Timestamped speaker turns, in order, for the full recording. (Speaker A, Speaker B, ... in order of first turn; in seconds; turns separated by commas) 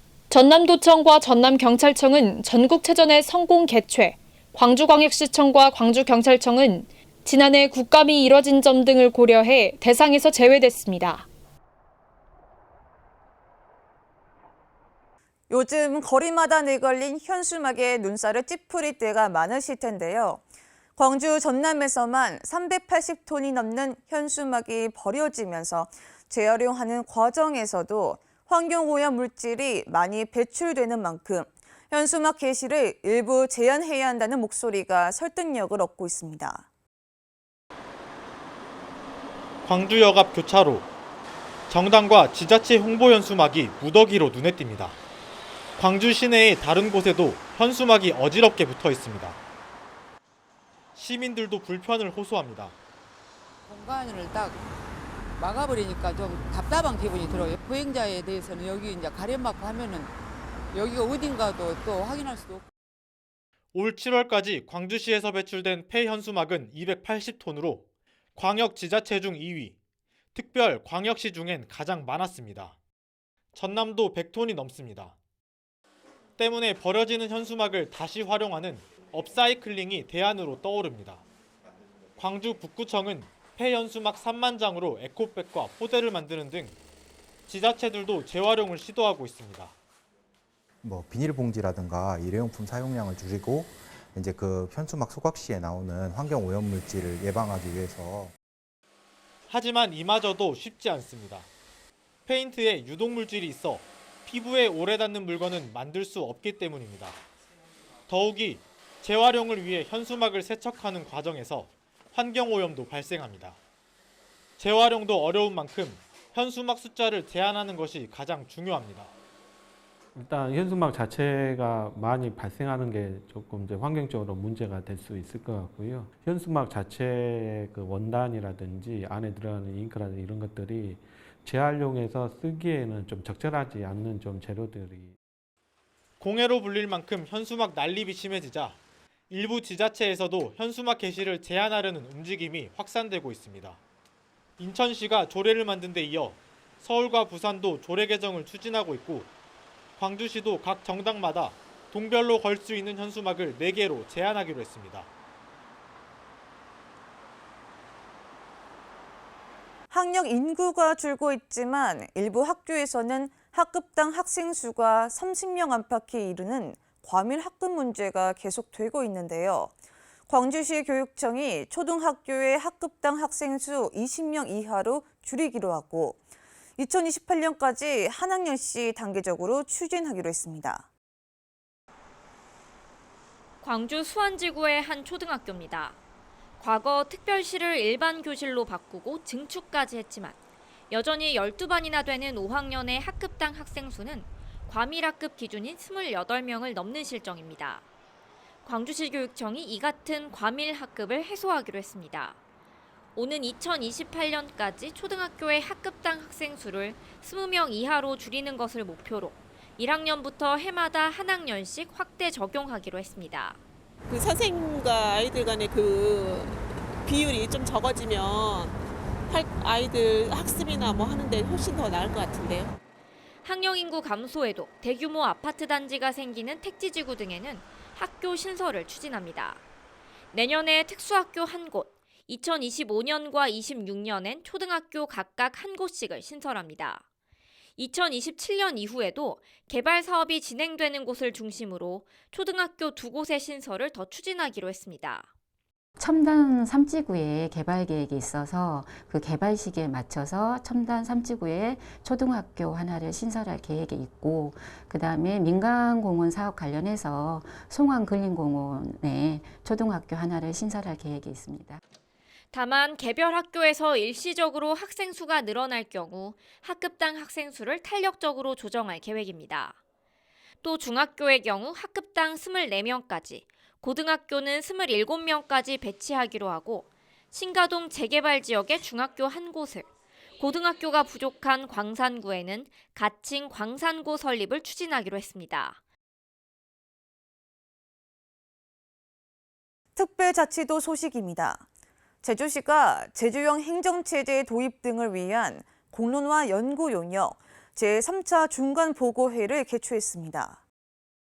Speaker A: 0.3-11.3, Speaker B: 15.5-20.4, Speaker B: 20.9-36.6, Speaker C: 39.6-40.9, Speaker C: 41.7-45.0, Speaker C: 45.8-49.4, Speaker C: 50.9-52.8, Speaker D: 53.6-54.6, Speaker D: 55.4-60.1, Speaker D: 60.7-62.6, Speaker C: 63.7-67.8, Speaker C: 68.3-69.8, Speaker C: 70.3-72.8, Speaker C: 73.5-75.1, Speaker C: 76.4-81.2, Speaker C: 82.2-86.7, Speaker C: 87.5-89.7, Speaker E: 90.8-98.3, Speaker C: 99.5-101.5, Speaker C: 102.2-107.2, Speaker C: 108.1-113.6, Speaker C: 114.6-119.1, Speaker F: 120.1-135.1, Speaker C: 136.2-138.8, Speaker C: 139.3-143.8, Speaker C: 144.6-149.3, Speaker C: 150.0-155.1, Speaker B: 159.9-169.7, Speaker B: 170.3-176.2, Speaker B: 176.8-180.9, Speaker G: 183.6-186.0, Speaker G: 186.6-190.4, Speaker G: 190.9-197.8, Speaker G: 198.6-202.4, Speaker G: 203.2-213.6, Speaker H: 214.1-222.7, Speaker G: 223.4-229.6, Speaker G: 230.3-237.0, Speaker G: 237.8-245.3, Speaker I: 246.0-261.8, Speaker G: 262.5-269.8, Speaker G: 270.6-279.9, Speaker G: 280.4-285.8, Speaker B: 289.9-291.6, Speaker B: 292.2-300.6